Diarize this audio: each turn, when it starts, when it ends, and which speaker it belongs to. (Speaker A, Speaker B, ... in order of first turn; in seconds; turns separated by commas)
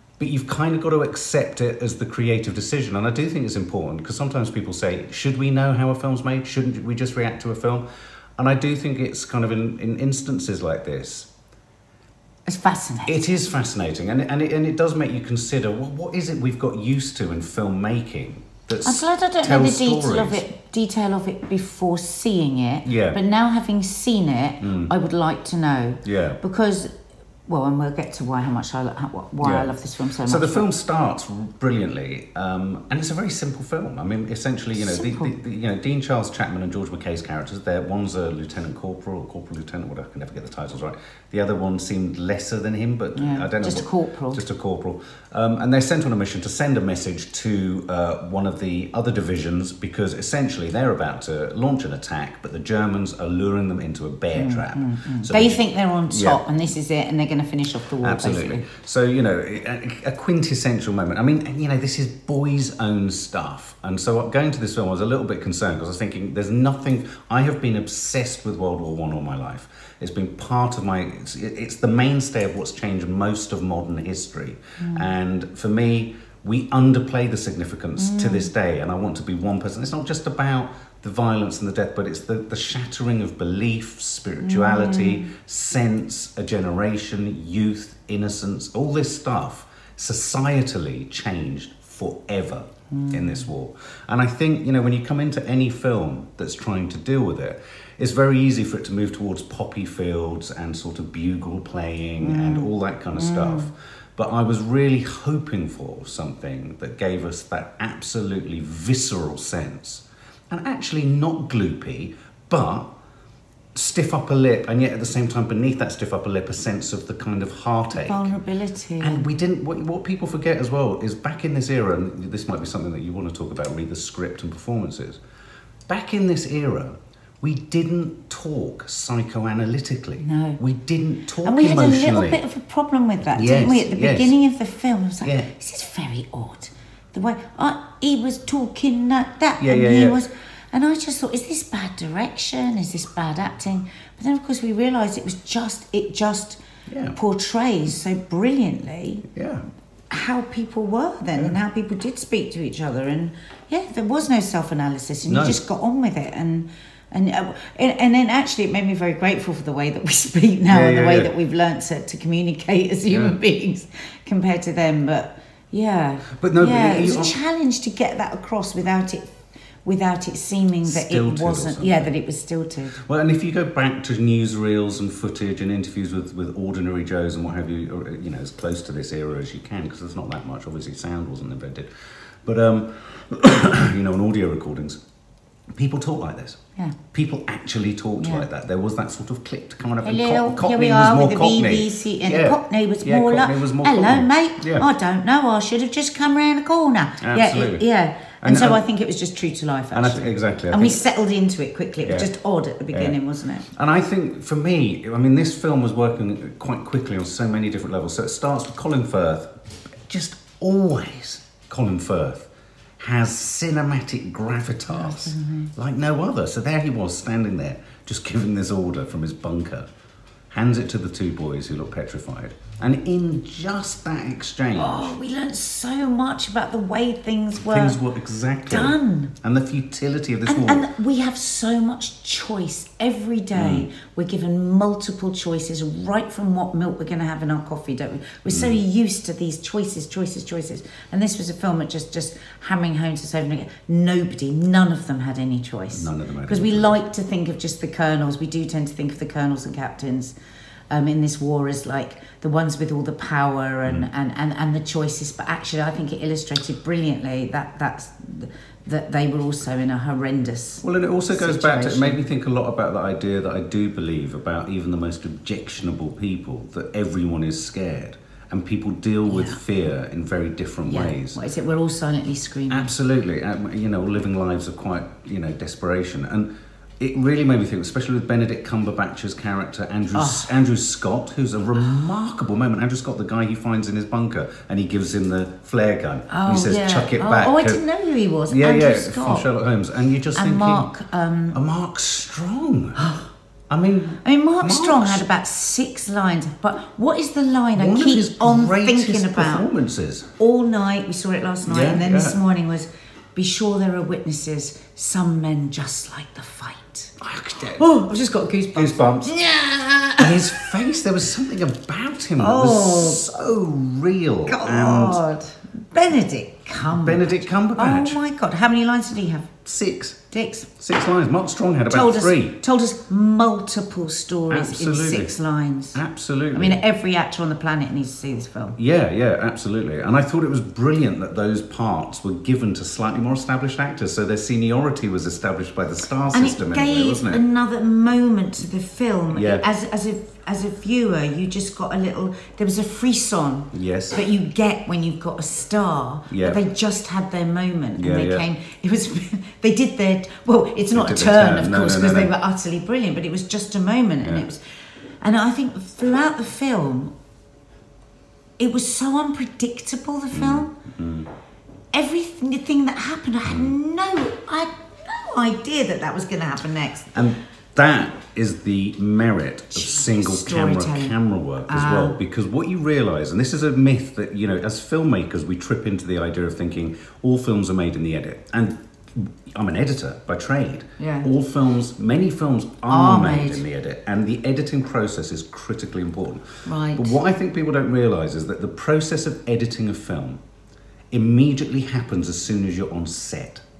Speaker A: 0.2-7.8, Speaker A: 8.4-11.3, Speaker B: 12.5-13.3, Speaker A: 13.1-20.4, Speaker B: 18.8-26.9, Speaker A: 22.9-23.2, Speaker A: 24.6-24.9, Speaker A: 26.1-26.4, Speaker B: 27.5-30.7, Speaker A: 29.4-29.7, Speaker A: 30.2-56.4, Speaker B: 34.8-35.3, Speaker B: 43.2-44.4, Speaker B: 54.3-58.7, Speaker A: 58.0-112.9, Speaker B: 74.8-75.1, Speaker B: 78.0-78.5, Speaker B: 84.4-85.3, Speaker B: 92.9-93.5, Speaker B: 102.2-103.7, Speaker A: 113.7-118.3, Speaker B: 117.9-119.3, Speaker A: 119.0-125.2, Speaker A: 125.9-132.4, Speaker B: 130.2-130.6, Speaker B: 131.4-146.6, Speaker A: 133.3-134.3, Speaker A: 139.6-140.2, Speaker A: 146.9-147.2, Speaker B: 147.1-149.3, Speaker A: 149.3-149.6, Speaker B: 150.1-169.3, Speaker A: 155.2-155.6, Speaker A: 160.7-161.3, Speaker A: 163.1-163.4, Speaker A: 166.4-167.4, Speaker B: 169.8-173.0, Speaker A: 170.8-172.1, Speaker A: 173.0-185.0, Speaker A: 185.8-186.6, Speaker A: 187.1-194.9, Speaker B: 188.2-188.5, Speaker B: 190.0-203.7, Speaker A: 197.2-197.8, Speaker A: 198.4-198.8, Speaker A: 199.9-201.0, Speaker A: 202.1-202.3, Speaker A: 203.7-209.6, Speaker A: 210.1-219.9, Speaker B: 214.9-215.7, Speaker A: 220.5-225.1, Speaker B: 224.8-228.0, Speaker A: 227.6-230.9, Speaker B: 228.7-229.3, Speaker B: 230.5-250.3, Speaker A: 233.6-233.9, Speaker A: 238.5-238.8, Speaker A: 245.9-247.0, Speaker B: 250.9-262.2, Speaker A: 260.8-271.4, Speaker B: 269.3-269.6, Speaker B: 270.9-272.9, Speaker A: 272.7-276.5, Speaker A: 277.0-287.8, Speaker B: 280.1-280.5, Speaker B: 286.3-289.5, Speaker A: 288.5-290.9, Speaker B: 290.4-291.6, Speaker A: 291.5-293.1, Speaker B: 293.0-293.3, Speaker A: 293.7-295.2, Speaker B: 294.2-299.7, Speaker A: 297.8-300.3, Speaker B: 300.4-307.1, Speaker A: 301.6-302.4, Speaker A: 307.2-307.9, Speaker B: 307.8-310.7, Speaker A: 308.8-309.3, Speaker A: 310.2-315.2, Speaker B: 312.4-313.2, Speaker B: 314.5-319.5, Speaker A: 316.9-318.2, Speaker A: 319.6-320.2, Speaker B: 320.3-320.8, Speaker A: 320.8-322.6, Speaker B: 321.9-326.0, Speaker A: 324.5-325.4, Speaker A: 325.9-326.8, Speaker B: 326.5-328.8, Speaker A: 328.8-337.4, Speaker B: 336.3-354.6, Speaker A: 339.3-339.6, Speaker A: 343.7-344.2, Speaker A: 346.3-346.6, Speaker A: 348.0-348.4, Speaker A: 350.9-352.3, Speaker A: 354.2-354.5, Speaker B: 355.2-357.1, Speaker B: 358.6-360.7, Speaker A: 360.3-361.3, Speaker B: 361.9-367.2, Speaker A: 363.5-363.8, Speaker A: 367.1-390.4, Speaker B: 369.7-372.2, Speaker B: 381.0-381.3, Speaker B: 382.9-383.6, Speaker B: 386.6-387.2, Speaker A: 391.1-393.6